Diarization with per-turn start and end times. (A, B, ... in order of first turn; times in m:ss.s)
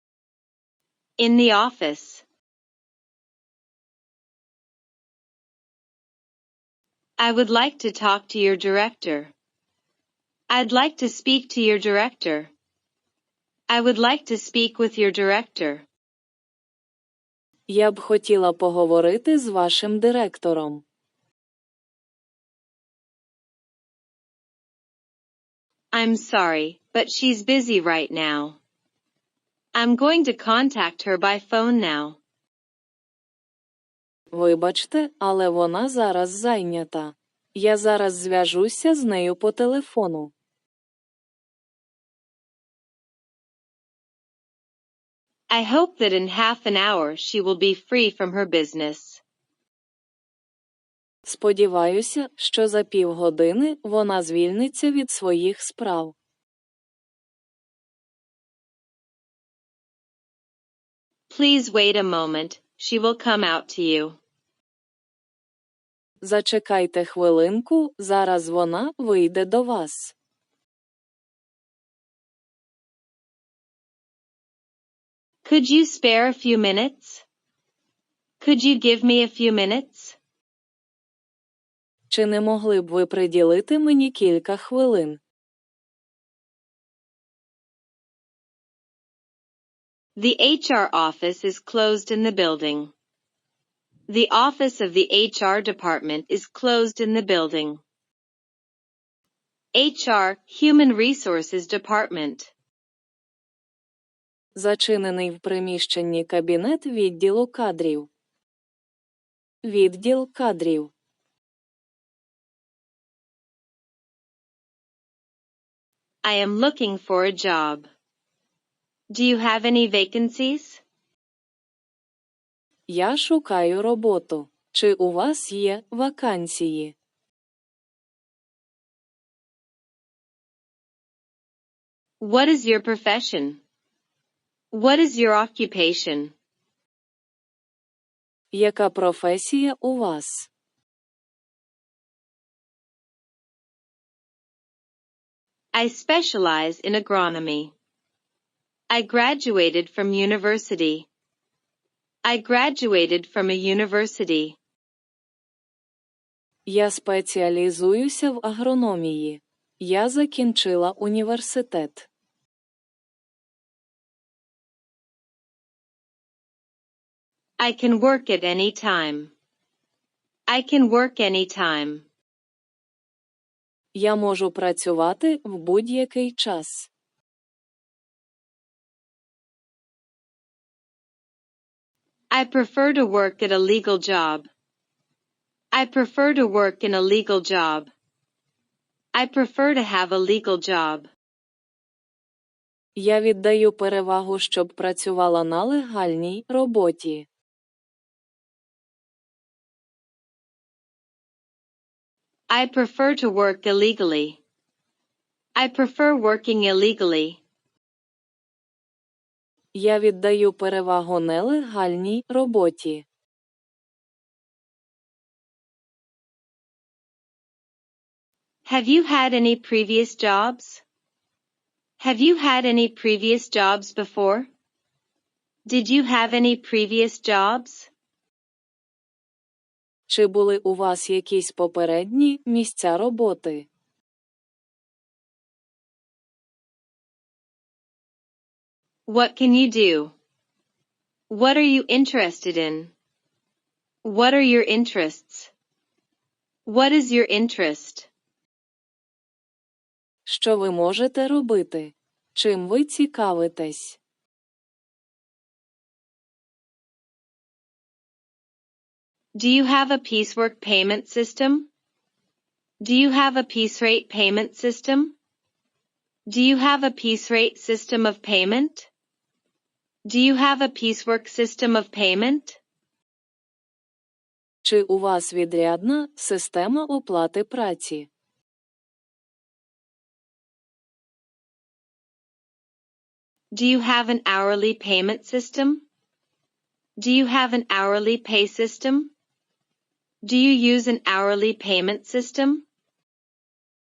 0:01.2-0:02.2 A
0:07.2-0:09.3 A
0:10.5-0:12.5 A
0:13.7-0:15.9 A
0:17.7-0:20.8 B
0:25.9-0:28.6 A
0:29.8-0:32.2 A
0:34.3-0:40.3 B
0:45.5-0:49.2 A
0:51.2-0:56.1 B
1:01.3-1:04.2 A
1:06.2-1:10.1 B
1:15.4-1:17.2 A
1:18.4-1:20.2 A
1:22.1-1:25.2 B
1:30.2-1:32.9 A
1:34.1-1:37.8 A
1:39.7-1:42.5 A
1:44.6-1:48.1 B
1:49.6-1:50.9 B
1:56.2-1:57.9 A
1:59.1-2:00.8 A
2:02.9-2:06.9 B
2:12.2-2:13.6 A
2:14.7-2:16.3 A
2:18.5-2:20.5 B
2:25.7-2:27.7 A
2:28.9-2:31.1 A
2:32.2-2:34.6 A
2:36.7-2:42.1 B
2:47.6-2:49.3 A
2:50.5-2:52.1 A
2:53.9-2:56.9 B
3:02.3-3:04.5 A
3:05.7-3:07.9 A
3:09.1-3:11.1 A
3:13.0-3:17.3 B
3:22.5-3:24.4 A
3:25.6-3:27.4 A
3:29.7-3:33.0 B
3:38.6-3:40.8 A
3:42.0-3:44.5 A
3:45.7-3:47.9 A
3:50.1-3:53.7 B
3:59.1-4:00.1 A
4:01.3-4:02.9 A
4:04.0-4:05.5 A
4:06.6-4:08.1 A
4:10.3-4:14.0 B
4:19.4-4:21.7 A
4:22.8-4:25.2 A
4:26.3-4:28.9 A
4:30.0-4:32.6 A
4:34.6-4:38.1 B
4:43.5-4:45.8 A
4:47.0-4:49.1 A
4:50.2-4:52.6 A